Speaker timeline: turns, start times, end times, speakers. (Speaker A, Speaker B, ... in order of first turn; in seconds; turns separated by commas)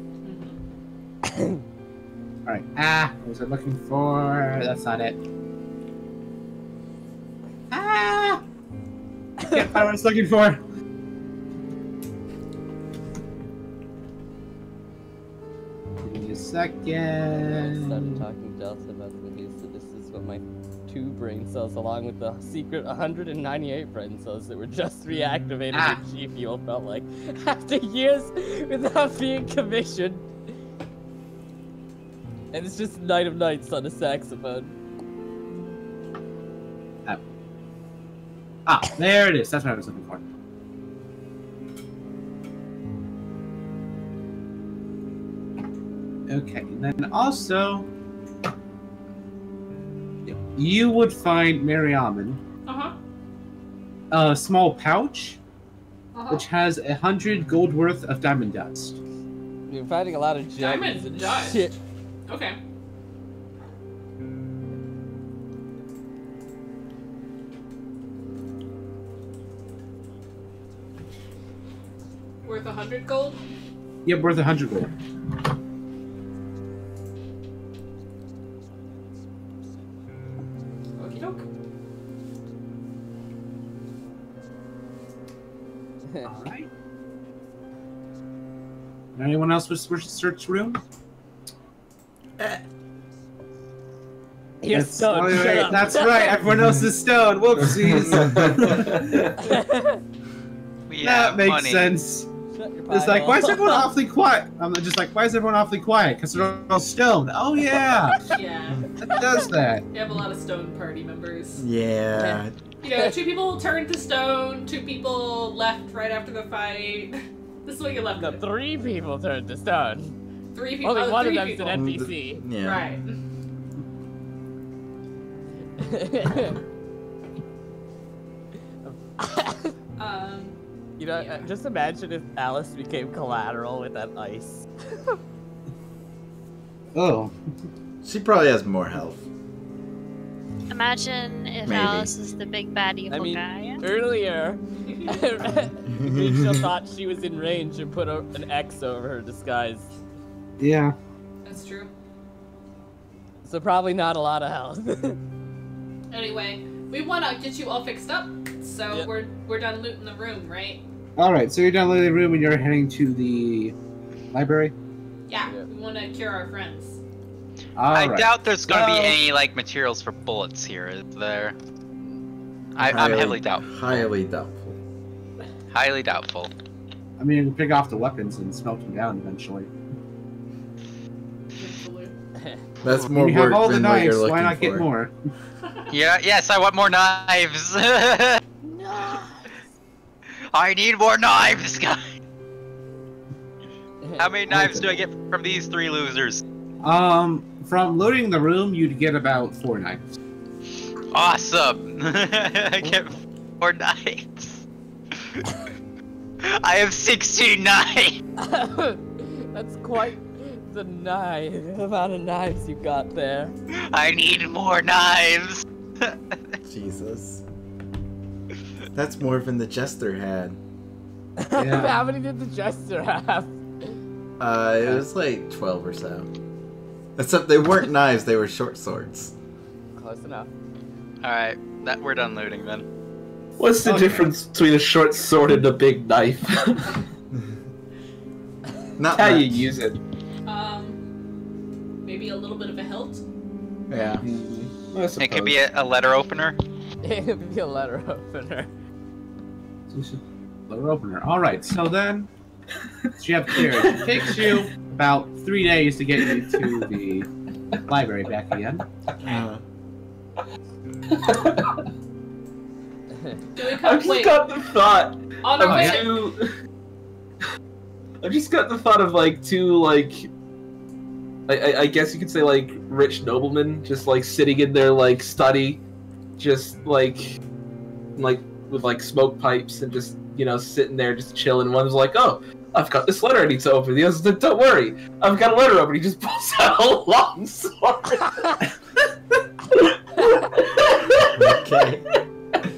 Speaker A: 0.2-0.6, Speaker B: 1.3-1.6, Speaker C: 2.5-5.2, Speaker C: 7.7-8.4, Speaker C: 9.5-10.6, Speaker C: 16.0-18.2, Speaker B: 17.4-30.3, Speaker C: 25.7-26.0, Speaker B: 32.5-34.7, Speaker C: 38.6-40.2, Speaker C: 46.3-47.9, Speaker C: 50.3-52.4, Speaker A: 52.6-52.9, Speaker C: 54.1-55.4, Speaker A: 56.1-56.5, Speaker C: 56.3-59.0, Speaker B: 59.7-61.8, Speaker A: 60.6-61.7, Speaker A: 62.3-62.6, Speaker A: 72.4-73.4, Speaker C: 74.0-74.9, Speaker A: 81.0-81.5, Speaker C: 86.2-86.7, Speaker C: 89.2-90.8, Speaker B: 94.6-96.4, Speaker C: 94.7-99.5, Speaker D: 97.6-99.2, Speaker E: 98.1-98.8, Speaker B: 99.4-100.0, Speaker F: 100.9-101.9, Speaker C: 101.0-102.3, Speaker B: 102.5-103.9, Speaker C: 102.9-108.2, Speaker A: 108.3-108.9, Speaker C: 109.0-109.9, Speaker A: 109.9-111.6, Speaker E: 111.6-112.6, Speaker B: 112.2-113.2, Speaker A: 112.8-118.4, Speaker B: 118.2-120.2, Speaker A: 120.5-121.9, Speaker B: 120.8-122.4, Speaker E: 121.7-122.9, Speaker A: 122.6-123.2, Speaker B: 125.8-126.6, Speaker B: 128.8-129.7, Speaker A: 130.0-130.6, Speaker B: 131.0-134.6, Speaker A: 131.1-131.5, Speaker C: 136.9-137.3, Speaker E: 138.0-139.2, Speaker G: 140.7-143.8, Speaker E: 141.6-142.1, Speaker B: 143.1-149.9, Speaker A: 144.8-145.2, Speaker E: 146.0-146.7, Speaker C: 150.6-150.9, Speaker A: 151.4-151.9, Speaker B: 153.5-155.2, Speaker A: 156.1-160.8, Speaker C: 161.2-163.7, Speaker C: 164.3-164.7, Speaker A: 165.3-167.0, Speaker C: 167.8-169.2, Speaker F: 167.9-171.6, Speaker F: 172.8-173.7, Speaker E: 172.8-174.8, Speaker F: 175.7-176.5, Speaker C: 177.2-179.7, Speaker A: 181.6-182.1, Speaker E: 182.8-184.9, Speaker C: 183.1-185.1, Speaker F: 185.9-188.4, Speaker B: 188.6-189.3, Speaker F: 190.5-192.2, Speaker B: 194.0-194.3, Speaker F: 194.2-196.4, Speaker C: 194.5-194.9, Speaker C: 196.8-200.1, Speaker F: 201.1-204.6, Speaker F: 206.4-208.2, Speaker B: 208.4-213.5, Speaker F: 213.7-216.4, Speaker E: 216.6-217.4, Speaker E: 218.9-220.6, Speaker B: 221.4-223.9, Speaker C: 221.6-222.0, Speaker E: 224.4-226.3, Speaker E: 227.2-229.3, Speaker B: 229.9-230.5, Speaker F: 231.2-232.8, Speaker D: 233.6-236.9, Speaker C: 233.8-234.2, Speaker E: 239.0-239.7, Speaker D: 239.1-240.0, Speaker A: 240.4-241.0, Speaker A: 242.0-243.2, Speaker E: 243.9-244.2, Speaker D: 244.2-245.6, Speaker F: 245.2-246.6, Speaker B: 247.0-248.7, Speaker C: 249.9-252.3, Speaker C: 253.2-257.3, Speaker D: 253.6-254.3, Speaker D: 256.2-256.9, Speaker C: 257.9-258.8, Speaker E: 259.2-259.6, Speaker D: 261.1-261.8, Speaker A: 263.6-264.6, Speaker D: 263.6-266.5, Speaker A: 265.4-266.3, Speaker C: 265.6-266.0, Speaker D: 268.2-270.3, Speaker D: 271.5-275.8, Speaker D: 276.4-277.4, Speaker D: 278.1-288.5, Speaker D: 289.8-291.6, Speaker E: 291.3-292.1